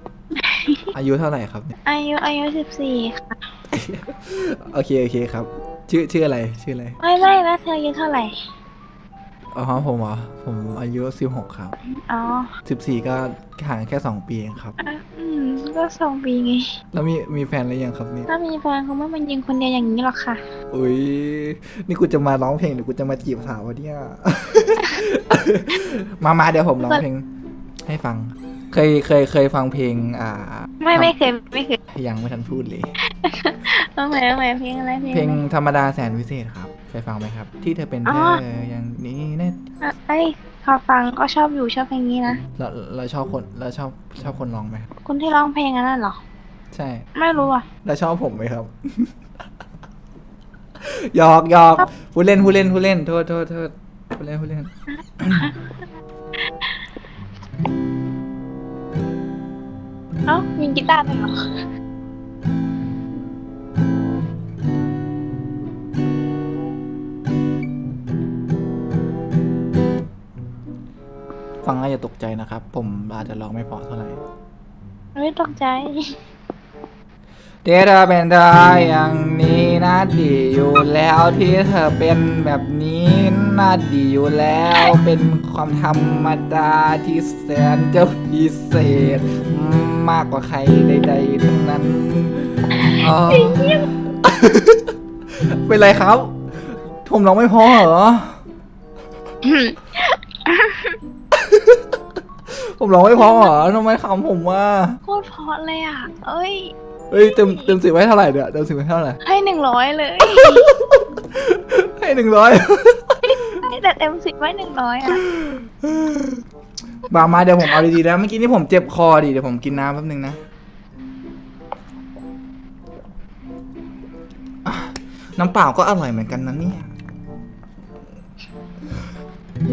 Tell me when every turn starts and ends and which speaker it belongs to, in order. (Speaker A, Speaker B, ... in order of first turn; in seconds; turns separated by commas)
Speaker A: 0.4-0.9, Speaker B: 0.9-1.8, Speaker A: 1.9-3.4, Speaker B: 3.7-7.0, Speaker A: 7.0-8.4, Speaker B: 9.5-11.8, Speaker A: 11.9-12.5, Speaker B: 12.7-14.8, Speaker A: 14.8-16.7, Speaker B: 16.9-18.3, Speaker A: 18.3-20.4, Speaker B: 20.7-27.3, Speaker B: 27.9-31.1, Speaker A: 30.8-31.8, Speaker B: 31.9-32.9, Speaker A: 33.2-35.4, Speaker B: 35.1-39.6, Speaker A: 38.1-38.4, Speaker A: 39.8-42.4, Speaker B: 42.6-44.9, Speaker A: 45.0-46.2, Speaker B: 46.7-47.1, Speaker A: 47.2-47.7, Speaker B: 47.8-49.1, Speaker B: 50.8-55.5, Speaker A: 60.3-61.4, Speaker B: 71.6-74.2, Speaker A: 75.2-76.2, Speaker B: 77.6-96.4, Speaker A: 92.9-93.8, Speaker B: 97.0-98.4, Speaker A: 99.4-101.0, Speaker B: 101.4-101.8, Speaker B: 102.5-105.0, Speaker A: 103.2-103.5, Speaker A: 105.0-106.7, Speaker B: 107.1-109.2, Speaker A: 107.3-107.7, Speaker A: 109.2-110.7, Speaker B: 110.2-113.6, Speaker A: 113.2-115.2, Speaker B: 115.1-116.4, Speaker B: 117.1-120.4, Speaker B: 124.7-126.9